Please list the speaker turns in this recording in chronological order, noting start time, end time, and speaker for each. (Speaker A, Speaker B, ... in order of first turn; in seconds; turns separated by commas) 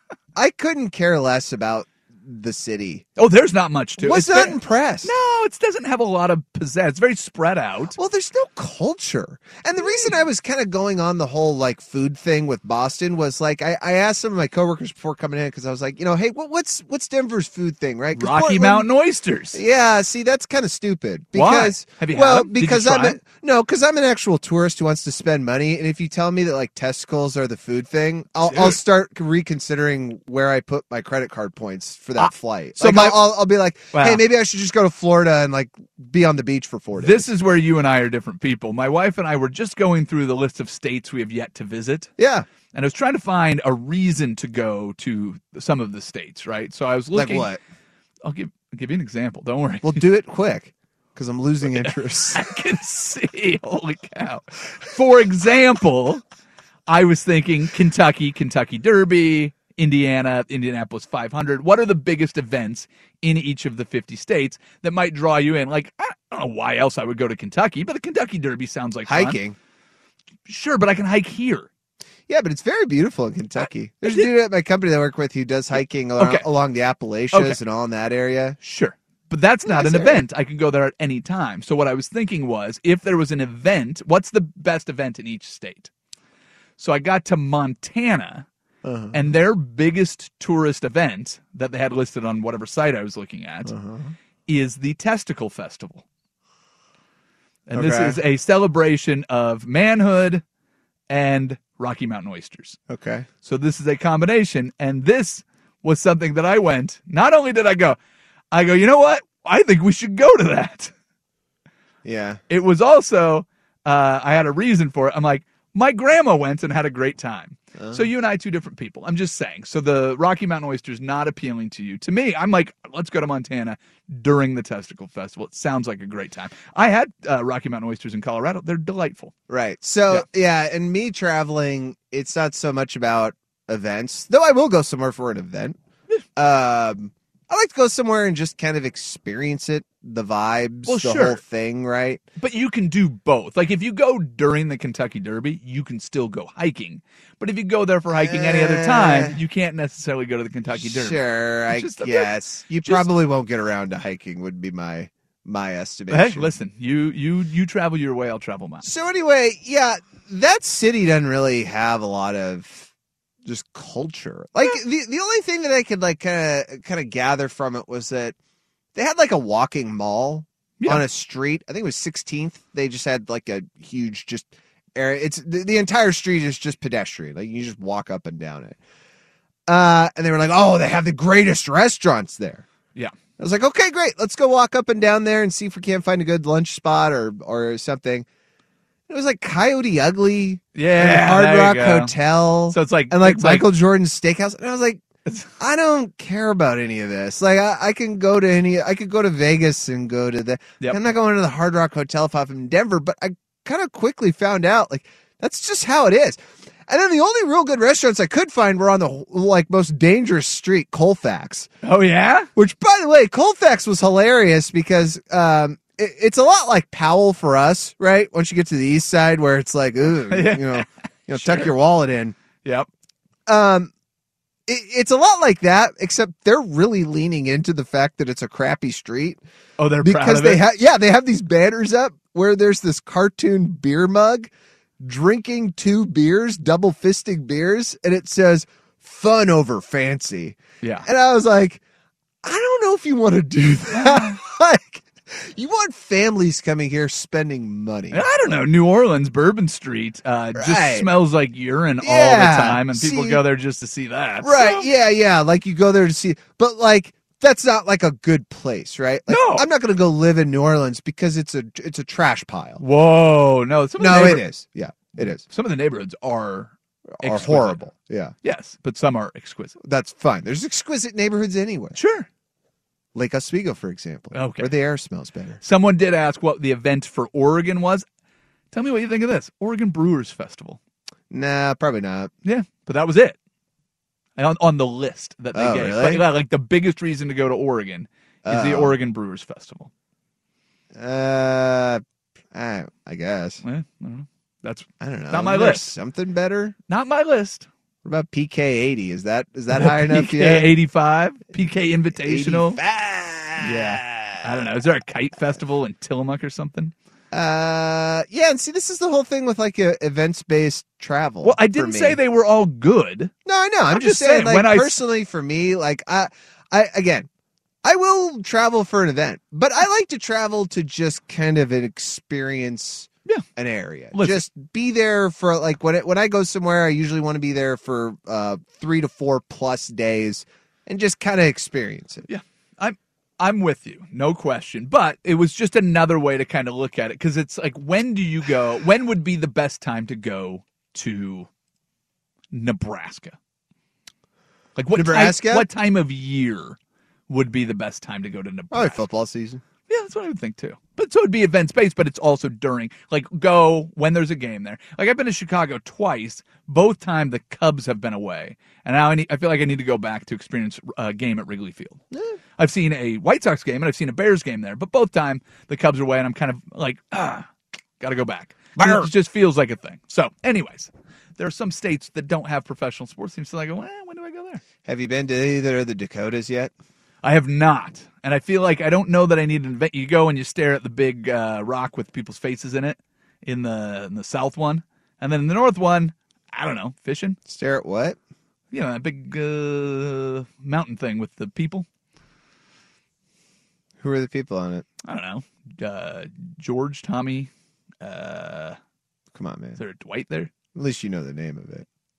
Speaker A: 0.3-3.0, Speaker B: 3.2-8.0, Speaker A: 4.0-5.1, Speaker A: 8.0-18.9, Speaker B: 18.1-19.6, Speaker A: 19.5-37.3, Speaker B: 21.3-23.2, Speaker B: 28.5-28.8, Speaker B: 32.2-33.3, Speaker B: 33.9-34.2, Speaker B: 37.0-42.1, Speaker A: 42.2-42.5, Speaker B: 42.7-47.5, Speaker A: 47.1-47.6, Speaker B: 48.2-50.0, Speaker A: 49.8-52.5, Speaker B: 51.7-56.2, Speaker B: 56.9-69.4, Speaker A: 69.1-69.6, Speaker B: 70.5-71.7, Speaker A: 72.3-78.6, Speaker B: 73.6-74.3, Speaker B: 76.2-76.5, Speaker B: 77.3-77.6, Speaker B: 78.6-85.9, Speaker A: 79.7-80.2, Speaker B: 86.8-88.5, Speaker A: 88.8-89.3, Speaker B: 89.1-93.7, Speaker A: 93.7-94.1, Speaker B: 94.5-96.0, Speaker B: 97.7-100.4, Speaker A: 97.7-98.2, Speaker B: 101.1-102.8, Speaker A: 102.9-103.3, Speaker B: 103.4-108.0, Speaker B: 108.5-110.9, Speaker A: 112.0-112.4, Speaker B: 112.5-129.3, Speaker A: 117.8-118.1, Speaker A: 129.5-135.8, Speaker A: 136.4-142.2, Speaker B: 140.9-141.4, Speaker B: 142.4-153.1, Speaker A: 148.2-149.4, Speaker A: 150.8-156.5, Speaker B: 156.1-158.9, Speaker A: 158.8-162.9, Speaker A: 163.4-168.3, Speaker A: 168.9-178.8, Speaker B: 170.8-171.1, Speaker A: 179.7-182.7, Speaker A: 183.4-188.3, Speaker A: 189.1-195.0, Speaker B: 190.8-192.1, Speaker B: 192.7-193.7, Speaker B: 195.3-195.5, Speaker A: 195.6-211.7, Speaker B: 211.8-212.5, Speaker A: 212.6-222.4, Speaker B: 220.3-221.7, Speaker A: 223.5-223.9, Speaker A: 224.7-229.4, Speaker B: 229.8-230.7, Speaker A: 230.0-241.8, Speaker B: 240.8-241.1, Speaker A: 242.4-248.2, Speaker B: 243.9-244.4, Speaker B: 248.1-254.9, Speaker A: 250.6-251.1, Speaker A: 252.0-253.4, Speaker A: 254.4-262.8, Speaker B: 259.3-259.7, Speaker B: 262.8-264.5, Speaker A: 264.0-265.4, Speaker B: 265.2-267.8, Speaker A: 267.2-268.3, Speaker B: 268.4-269.8, Speaker A: 269.8-272.0, Speaker B: 271.9-272.3, Speaker A: 273.1-275.6, Speaker B: 274.3-274.7, Speaker B: 275.6-278.1, Speaker B: 278.7-280.8, Speaker A: 281.3-282.3, Speaker B: 282.4-283.4, Speaker B: 284.4-289.9, Speaker A: 285.5-286.2, Speaker A: 288.4-288.9, Speaker A: 290.9-293.6, Speaker B: 293.6-295.9, Speaker A: 295.0-296.8, Speaker B: 296.9-297.7, Speaker A: 298.0-300.7, Speaker B: 299.7-302.8, Speaker A: 302.2-304.6, Speaker B: 303.6-306.9, Speaker A: 307.3-312.2, Speaker B: 311.4-313.3, Speaker A: 313.4-317.3, Speaker B: 313.9-315.0, Speaker A: 317.8-332.3, Speaker B: 324.1-324.5, Speaker B: 332.3-341.5, Speaker B: 342.5-343.4, Speaker B: 344.8-346.8, Speaker A: 344.9-345.7, Speaker B: 347.3-349.0, Speaker A: 348.7-349.6, Speaker B: 349.9-362.0, Speaker A: 362.1-362.4, Speaker B: 362.6-367.5, Speaker B: 368.0-374.6, Speaker A: 368.8-369.1, Speaker A: 374.9-376.7, Speaker B: 377.2-387.4, Speaker A: 387.5-388.2, Speaker B: 388.7-391.9, Speaker A: 394.0-394.9, Speaker B: 395.0-397.5, Speaker B: 398.0-398.8, Speaker A: 399.3-399.8, Speaker B: 399.8-400.5, Speaker A: 400.7-401.9